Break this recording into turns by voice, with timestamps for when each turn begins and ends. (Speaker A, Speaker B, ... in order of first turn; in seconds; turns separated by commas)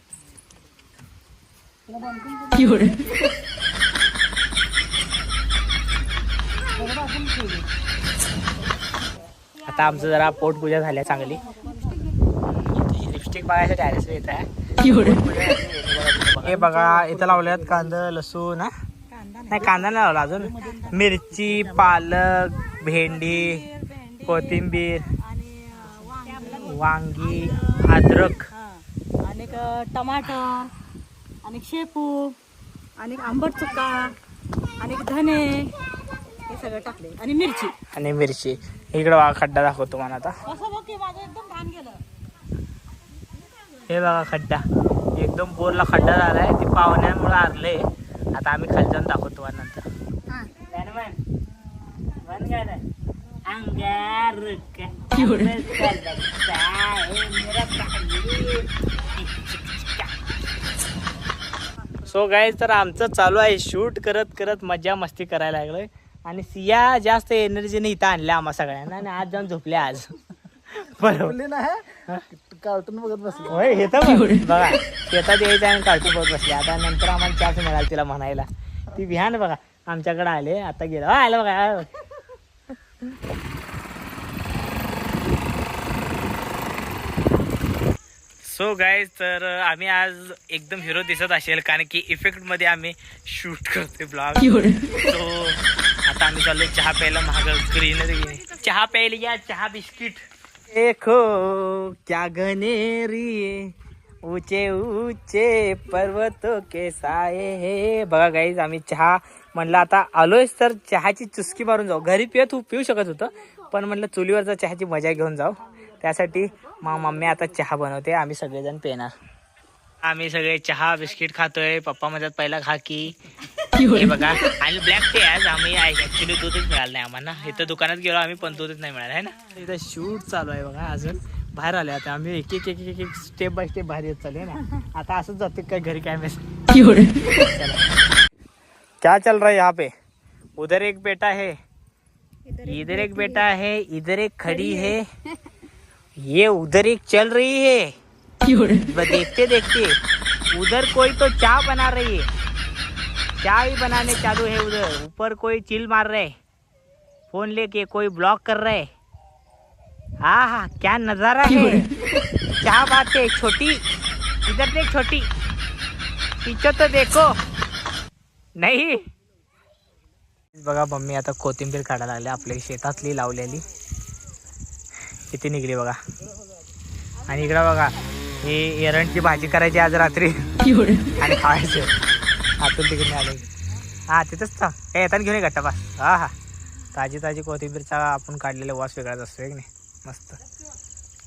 Speaker A: 2.0-3.0, Speaker A: 7.0-7.5, Speaker B: 9.7-11.4, Speaker B: 12.5-18.7, Speaker C: 16.6-17.5, Speaker A: 19.1-19.9, Speaker B: 19.5-23.6, Speaker C: 20.4-20.8, Speaker C: 21.5-21.9, Speaker A: 23.2-24.7, Speaker B: 24.2-25.1, Speaker A: 25.2-26.8, Speaker B: 26.4-28.5, Speaker A: 27.4-27.7, Speaker A: 29.2-30.7, Speaker A: 31.4-32.3, Speaker A: 33.0-34.1, Speaker A: 34.8-35.7, Speaker A: 36.5-37.7, Speaker B: 37.9-40.3, Speaker A: 40.5-42.0, Speaker B: 43.9-44.6, Speaker B: 45.2-49.9, Speaker B: 50.7-51.2, Speaker B: 52.1-52.9, Speaker B: 53.5-60.1, Speaker B: 62.0-70.1, Speaker B: 70.7-71.4, Speaker C: 71.0-73.9, Speaker B: 73.5-81.9, Speaker B: 88.4-119.1, Speaker B: 120.0-123.2, Speaker B: 123.8-137.9, Speaker B: 139.0-139.9, Speaker B: 140.6-141.6, Speaker B: 142.6-145.1, Speaker B: 146.2-147.9, Speaker B: 148.5-150.0, Speaker B: 150.5-152.3, Speaker B: 153.4-156.3, Speaker B: 157.3-158.9, Speaker B: 160.2-161.9, Speaker B: 162.6-163.8, Speaker B: 164.5-165.3, Speaker B: 166.4-167.4, Speaker B: 168.6-169.0, Speaker B: 170.5-173.7, Speaker B: 175.3-176.0, Speaker B: 177.3-180.6, Speaker B: 181.1-181.9, Speaker B: 182.6-183.5, Speaker B: 184.1-186.3, Speaker B: 186.9-190.4